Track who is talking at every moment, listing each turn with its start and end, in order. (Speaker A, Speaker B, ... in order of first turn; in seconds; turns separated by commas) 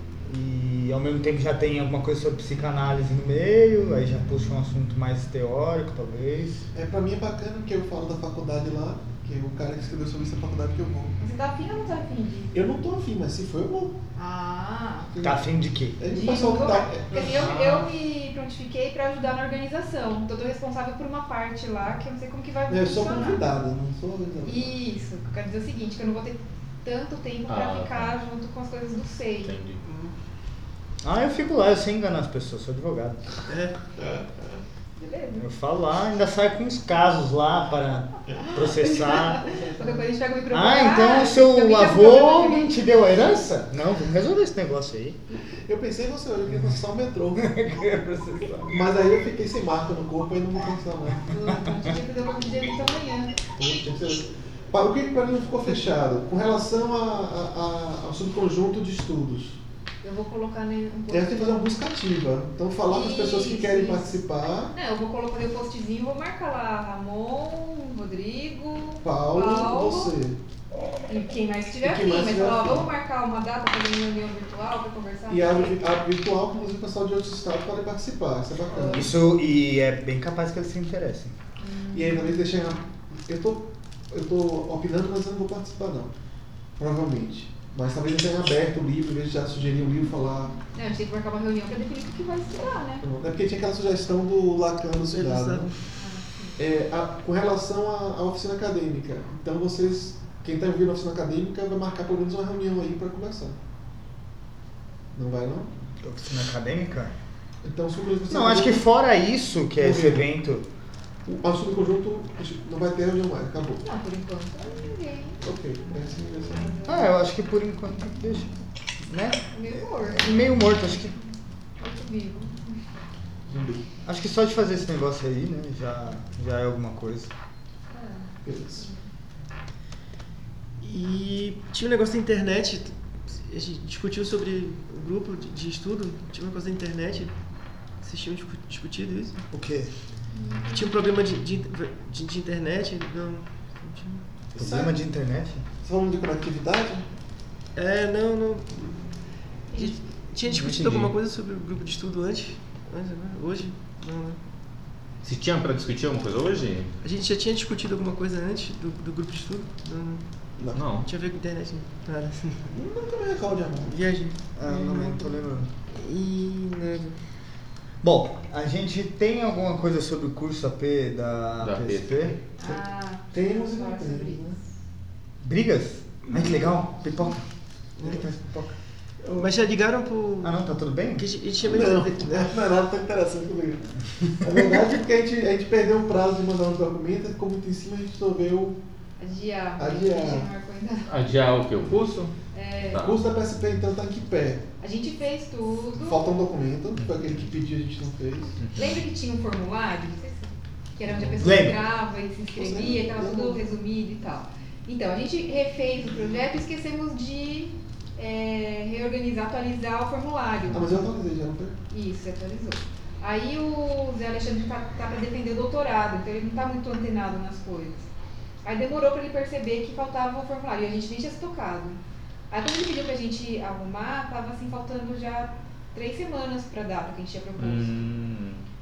Speaker A: 0.2-6.7, Speaker B: 6.7-11.1, Speaker C: 11.2-12.5, Speaker B: 12.5-14.0, Speaker C: 14.2-15.1, Speaker B: 15.1-15.4, Speaker A: 15.2-16.0, Speaker B: 16.0-17.6, Speaker C: 16.1-23.4, Speaker D: 17.4-17.8, Speaker B: 22.7-24.7, Speaker C: 24.4-29.5, Speaker D: 27.5-28.1, Speaker D: 29.4-29.8, Speaker E: 29.8-30.1, Speaker A: 31.0-33.2, Speaker E: 33.5-34.3, Speaker C: 35.0-35.5, Speaker A: 35.4-39.5, Speaker C: 38.4-42.7, Speaker E: 39.5-39.8, Speaker A: 40.5-45.2, Speaker B: 45.6-47.5, Speaker A: 46.5-46.8, Speaker A: 47.3-48.8, Speaker B: 48.7-51.3, Speaker C: 51.2-53.3, Speaker B: 53.6-59.6, Speaker C: 60.0-61.7, Speaker B: 61.1-64.7, Speaker C: 62.9-64.1, Speaker C: 64.7-70.1, Speaker B: 69.0-70.4, Speaker C: 71.1-75.8, Speaker B: 71.8-72.9, Speaker B: 75.3-79.1, Speaker C: 78.7-79.1, Speaker A: 78.9-81.3, Speaker C: 81.6-82.4, Speaker B: 81.9-86.1, Speaker B: 86.8-90.6, Speaker C: 90.7-93.0, Speaker B: 93.0-95.7, Speaker E: 95.1-95.8, Speaker C: 95.9-96.6, Speaker B: 96.6-103.6, Speaker B: 105.1-105.7, Speaker A: 106.0-107.1, Speaker B: 107.6-108.8, Speaker A: 108.3-110.7, Speaker B: 109.8-110.3, Speaker B: 111.2-113.8, Speaker C: 113.8-115.4, Speaker B: 115.4-116.8, Speaker C: 116.5-117.0, Speaker A: 116.8-118.5, Speaker A: 119.1-121.1, Speaker C: 119.5-120.8, Speaker C: 121.8-122.8, Speaker B: 123.5-123.8, Speaker A: 124.0-127.3, Speaker C: 127.9-129.1, Speaker B: 128.4-128.9, Speaker E: 130.8-137.3, Speaker E: 138.0-139.4, Speaker A: 139.5-139.9, Speaker C: 140.3-140.9, Speaker E: 140.7-144.2, Speaker B: 144.5-145.0, Speaker A: 144.6-145.6, Speaker B: 145.8-147.1, Speaker E: 147.7-154.4, Speaker C: 149.7-150.0, Speaker A: 150.4-151.1, Speaker D: 155.2-156.9, Speaker E: 157.0-160.2, Speaker D: 160.7-161.1, Speaker E: 161.0-162.7, Speaker B: 162.7-164.0, Speaker E: 163.9-165.3, Speaker A: 164.6-165.7, Speaker E: 165.9-167.2, Speaker A: 168.0-172.3, Speaker D: 171.6-172.3, Speaker C: 172.5-174.7, Speaker B: 172.6-174.6, Speaker A: 175.4-177.5, Speaker E: 178.0-178.2, Speaker A: 178.0-178.7, Speaker E: 179.3-182.6, Speaker A: 180.4-181.2, Speaker B: 181.6-188.8, Speaker A: 184.4-184.9, Speaker C: 189.2-191.1, Speaker B: 189.8-190.5, Speaker D: 191.1-192.3, Speaker C: 192.5-193.1, Speaker B: 193.0-194.6, Speaker C: 194.8-196.2, Speaker B: 195.9-198.6, Speaker D: 197.0-197.5, Speaker D: 198.6-199.0, Speaker C: 198.7-210.8, Speaker B: 201.2-201.6, Speaker A: 201.4-201.8, Speaker B: 202.5-203.6, Speaker B: 210.7-211.8, Speaker C: 211.9-218.1, Speaker C: 218.6-228.1, Speaker D: 227.6-228.7